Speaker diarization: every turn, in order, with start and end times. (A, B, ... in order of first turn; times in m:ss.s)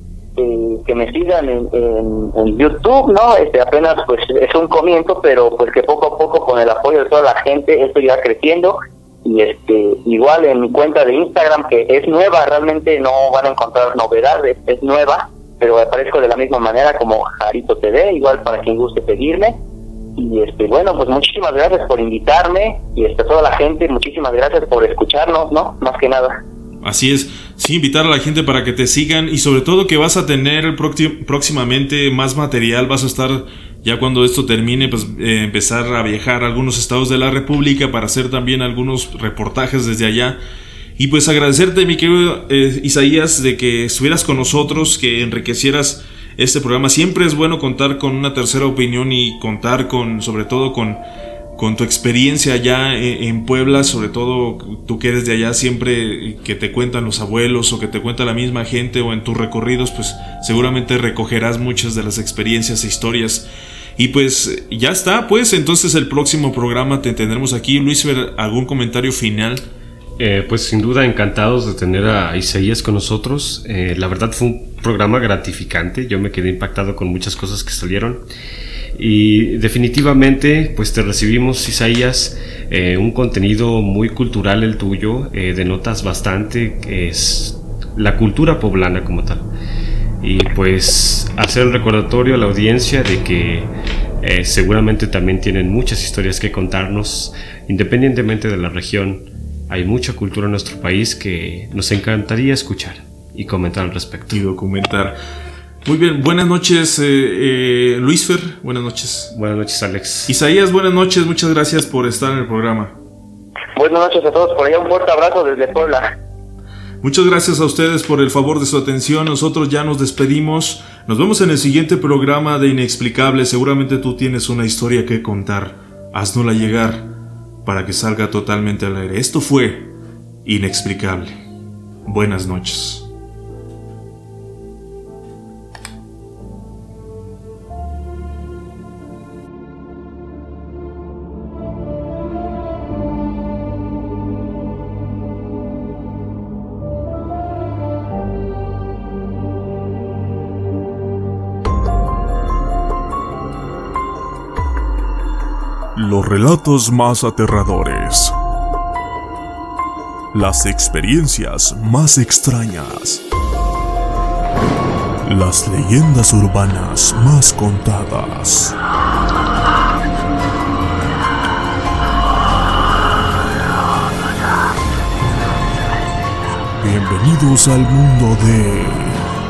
0:00.4-0:19.6 A
0:20.2-0:26.4 A
0:26.8-0:40.4 B
0:41.0-0:51.0 B
0:51.6-1:09.7 B
1:10.2-1:18.2 C
1:19.0-1:29.5 C
1:30.2-1:44.4 C
1:44.3-1:45.2 B
1:45.8-1:49.3 B
1:49.3-1:50.4 C
1:50.3-1:53.0 B
1:53.8-1:56.2 A
1:57.0-2:11.4 B
2:12.1-2:13.1 B
2:36.0-2:38.4 D
2:40.3-2:43.2 D
2:45.2-2:48.8 D
2:56.8-2:59.2 D